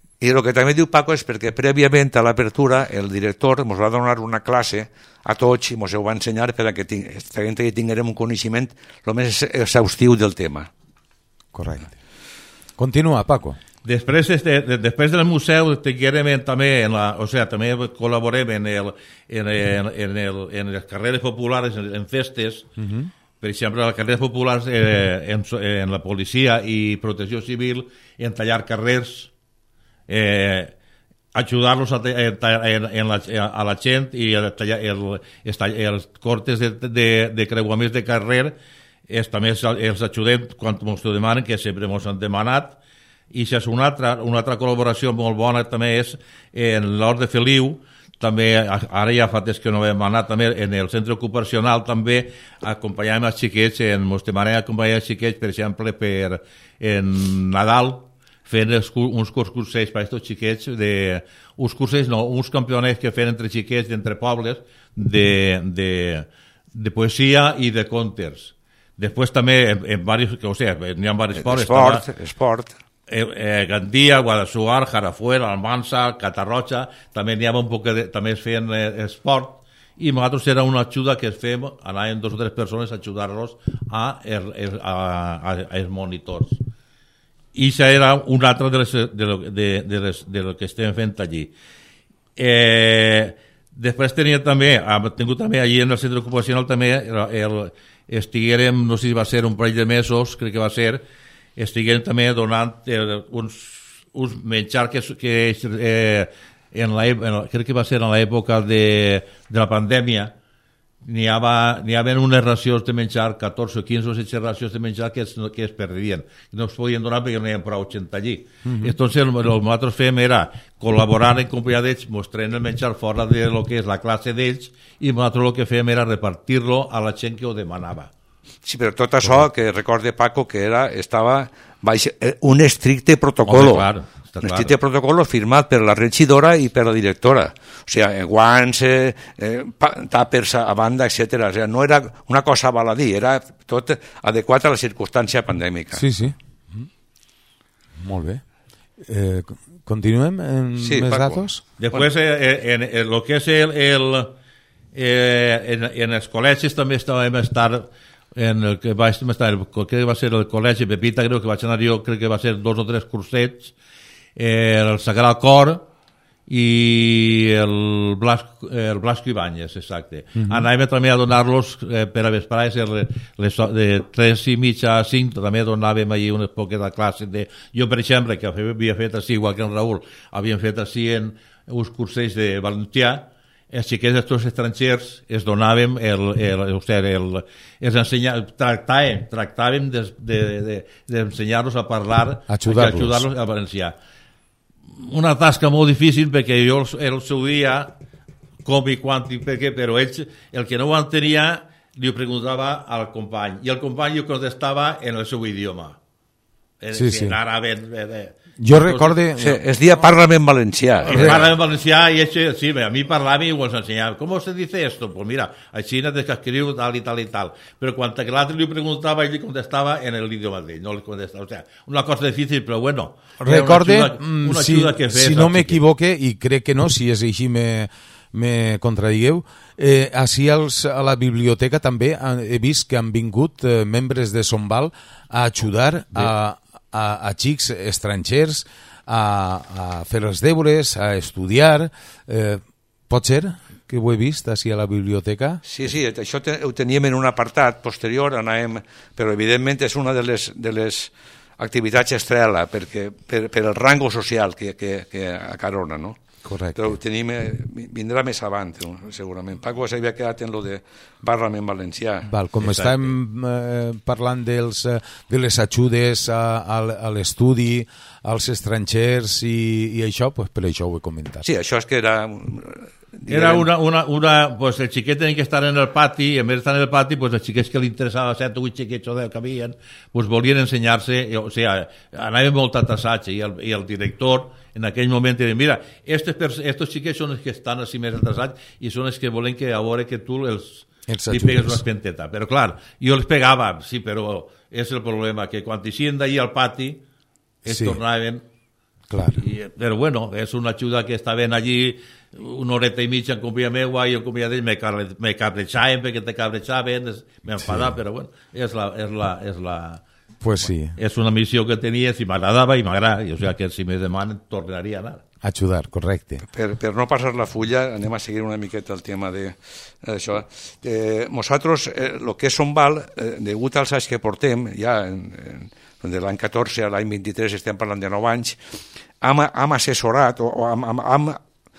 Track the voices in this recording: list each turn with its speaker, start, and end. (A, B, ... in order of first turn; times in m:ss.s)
0:00.2-0:10.7 A
0:11.5-0:11.9 B
0:12.8-0:13.6 B
0:13.8-0:22.7 C
0:22.8-0:23.1 B
0:23.4-0:29.3 C
0:30.1-0:30.7 C
0:31.3-0:38.6 C
0:39.1-0:42.8 C
0:43.3-1:12.0 C
1:11.4-1:12.7 A
1:13.1-1:26.6 C
1:27.5-1:31.5 C
1:32.4-1:41.0 C
1:41.6-1:50.3 C
1:51.0-2:08.1 C
1:58.6-1:58.9 B
2:08.6-2:13.9 A
2:13.5-2:14.7 C
2:14.4-2:26.0 A
2:26.0-2:26.9 B
2:28.0-2:28.4 B
2:29.0-2:31.6 B
2:30.8-2:32.0 A
2:31.8-2:34.3 C
2:34.9-2:43.7 C
2:44.4-2:45.8 C
2:46.5-3:13.9 C
3:12.5-3:13.2 B
3:14.9-3:17.9 C
3:18.6-3:26.0 C
3:26.8-3:29.5 C
3:26.9-3:27.4 B
3:28.6-3:29.6 B
3:29.4-3:31.4 A
3:31.0-3:45.8 C
3:31.1-3:31.4 B
3:43.4-4:05.6 B
4:05.6-4:16.2 A
4:16.4-4:16.9 B
4:16.7-4:22.3 A
4:22.3-4:31.4 B
4:22.6-4:23.1 C
4:31.4-4:33.7 A
4:33.3-4:57.0 C
4:51.1-4:51.8 B
4:57.6-4:58.4 C
4:57.7-4:58.0 B
4:59.1-4:59.4 B
4:59.4-5:10.0 C
5:07.6-5:07.9 B
5:10.4-5:10.9 B
5:10.9-5:15.2 C
5:15.4-5:16.4 B
5:16.5-5:28.6 A
5:29.2-5:31.4 A